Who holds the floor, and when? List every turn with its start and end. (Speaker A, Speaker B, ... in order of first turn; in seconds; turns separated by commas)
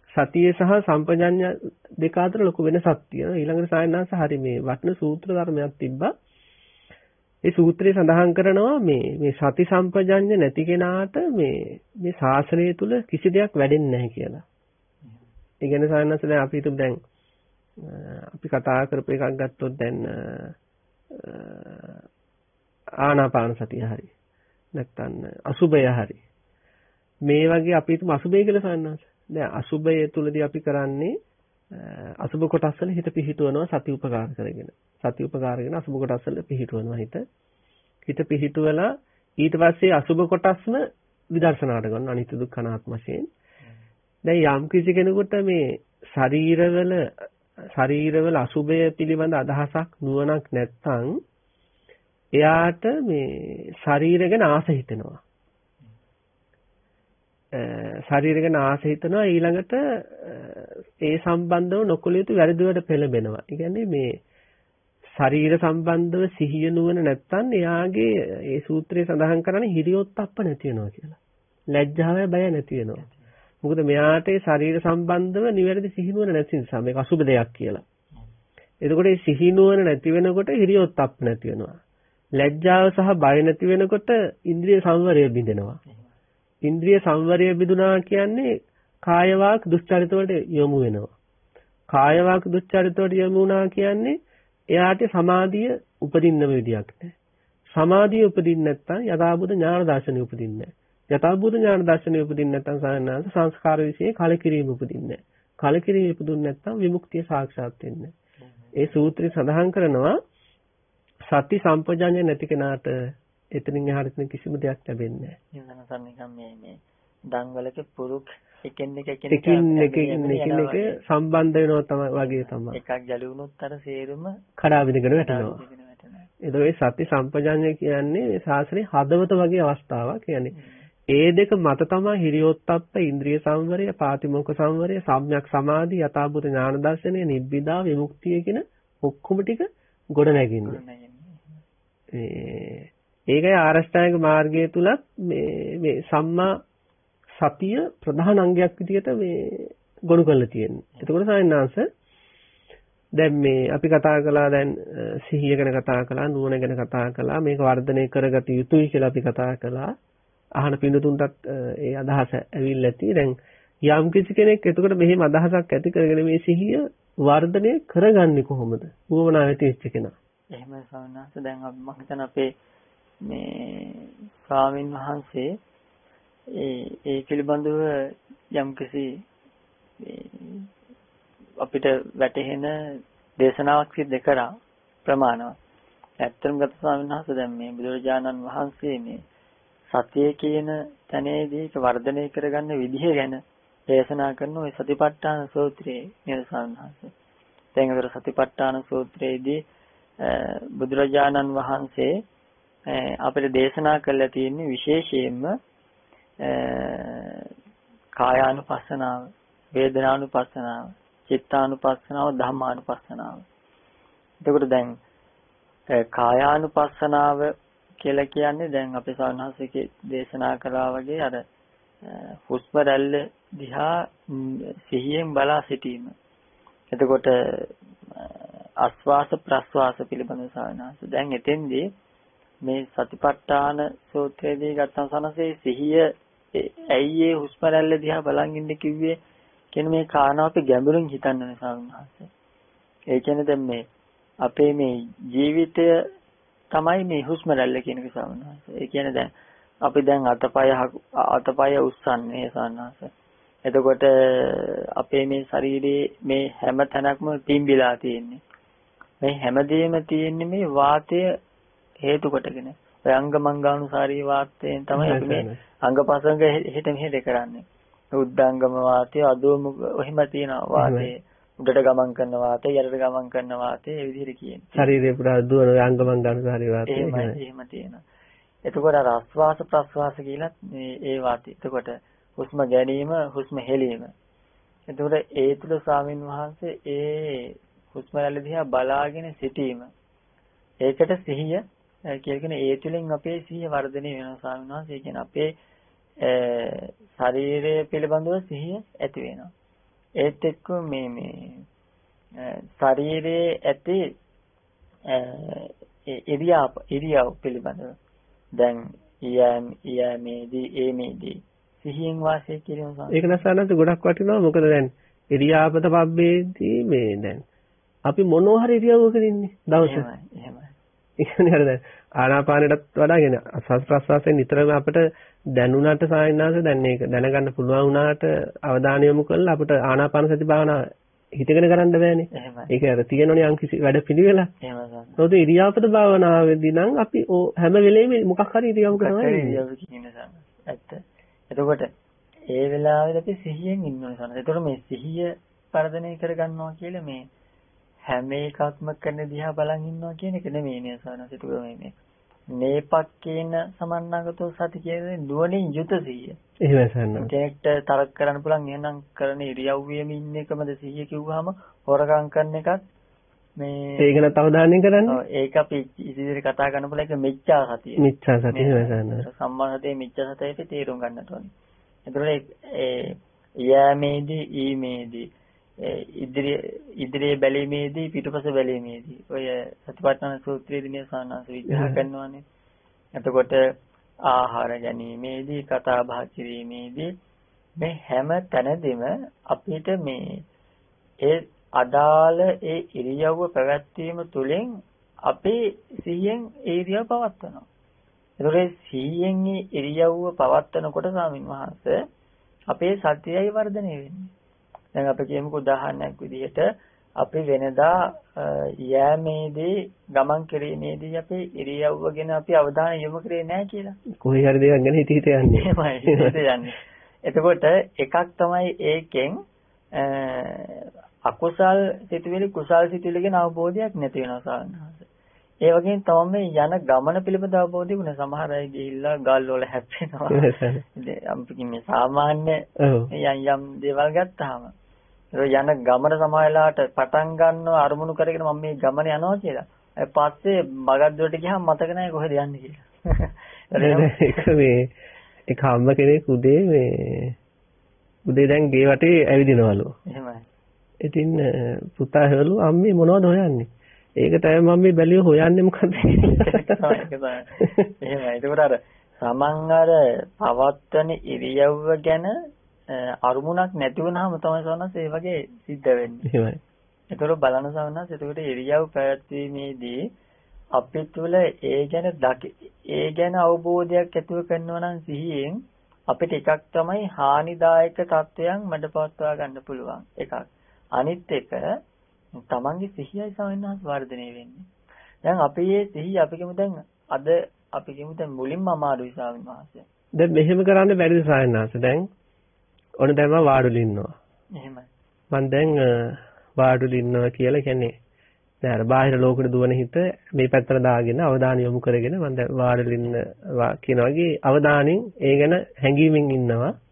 Speaker A: 0.1-6.1, Speaker A: 7.4-14.4, Speaker A: 15.6-17.0, Speaker A: 17.8-20.6, Speaker A: 21.1-22.0, Speaker A: 23.0-24.1, Speaker A: 24.7-26.2, Speaker A: 27.3-31.1, Speaker A: 31.7-37.2, Speaker A: 38.1-43.3, Speaker A: 44.2-51.2, Speaker A: 52.3-55.2, Speaker A: 57.5-64.2, Speaker A: 65.1-71.2, Speaker A: 71.7-73.1, Speaker B: 73.0-73.3, Speaker A: 73.6-77.8, Speaker A: 78.8-81.8, Speaker A: 82.4-85.8, Speaker B: 85.9-86.1, Speaker A: 86.6-91.1, Speaker A: 91.9-94.2, Speaker A: 94.7-97.1, Speaker A: 97.7-108.1, Speaker B: 108.4-108.9, Speaker A: 108.8-110.2, Speaker A: 111.3-115.4, Speaker B: 115.5-121.0, Speaker A: 119.3-122.8, Speaker B: 122.2-124.4, Speaker A: 124.6-125.6, Speaker B: 125.1-126.3, Speaker A: 126.4-130.6, Speaker B: 130.5-130.9, Speaker A: 131.1-140.8, Speaker B: 140.6-141.6, Speaker A: 142.1-146.6, Speaker A: 147.4-151.9, Speaker A: 153.2-159.9, Speaker A: 160.6-170.1, Speaker B: 170.5-172.5, Speaker B: 173.2-175.6, Speaker B: 176.5-179.2, Speaker B: 180.0-180.7, Speaker B: 181.6-185.6, Speaker B: 186.2-189.2, Speaker B: 189.9-197.1, Speaker B: 197.8-199.6, Speaker B: 200.2-202.1, Speaker B: 202.9-205.6, Speaker B: 206.4-207.5, Speaker B: 208.2-213.4, Speaker B: 214.4-215.0, Speaker B: 215.9-221.4, Speaker B: 222.0-226.1, Speaker B: 226.9-231.9, Speaker B: 232.6-239.2, Speaker B: 239.7-242.3, Speaker B: 243.1-243.8, Speaker B: 244.4-246.0, Speaker B: 246.7-249.3, Speaker B: 249.8-253.1, Speaker B: 253.6-258.4, Speaker B: 259.2-261.3, Speaker B: 262.0-274.9, Speaker A: 264.9-265.6, Speaker A: 270.8-271.1, Speaker A: 274.7-277.4, Speaker B: 276.9-278.0, Speaker B: 278.6-284.1, Speaker B: 284.9-289.9, Speaker B: 290.8-295.5, Speaker B: 296.2-299.5, Speaker B: 300.2-301.6, Speaker B: 302.4-304.1, Speaker B: 305.1-307.9, Speaker B: 308.6-313.4, Speaker A: 313.1-317.4, Speaker A: 318.1-320.1, Speaker B: 319.8-320.8, Speaker A: 321.2-334.5, Speaker B: 332.3-332.7, Speaker B: 334.6-335.2, Speaker A: 335.2-339.6, Speaker B: 338.9-341.9, Speaker B: 342.5-347.3, Speaker B: 348.1-352.0, Speaker B: 352.5-356.4, Speaker A: 356.6-357.3, Speaker B: 357.1-362.8, Speaker B: 363.6-364.2, Speaker A: 364.0-365.2, Speaker B: 365.1-371.5, Speaker A: 368.0-369.2, Speaker B: 372.1-375.3, Speaker B: 375.8-382.4, Speaker A: 381.7-382.0, Speaker B: 383.2-383.7, Speaker B: 384.2-387.1, Speaker B: 387.8-390.4, Speaker B: 391.2-397.6, Speaker B: 398.4-402.0, Speaker B: 402.7-404.3, Speaker B: 404.9-414.0, Speaker A: 414.1-416.4, Speaker B: 415.6-419.4, Speaker B: 419.9-425.1, Speaker B: 425.6-434.7, Speaker A: 430.3-430.8, Speaker A: 432.8-433.1, Speaker B: 435.4-444.5, Speaker A: 443.8-444.9, Speaker A: 445.5-447.4, Speaker A: 448.2-449.9, Speaker B: 450.1-450.5, Speaker A: 451.0-457.0, Speaker B: 456.0-462.3, Speaker A: 457.6-457.9, Speaker B: 462.9-466.3, Speaker A: 466.2-466.6, Speaker B: 467.1-470.1, Speaker B: 470.8-481.7, Speaker B: 482.4-484.7, Speaker B: 485.2-489.9, Speaker A: 490.1-492.1, Speaker A: 493.0-494.1, Speaker B: 494.6-494.9, Speaker A: 495.3-497.9, Speaker A: 498.6-506.8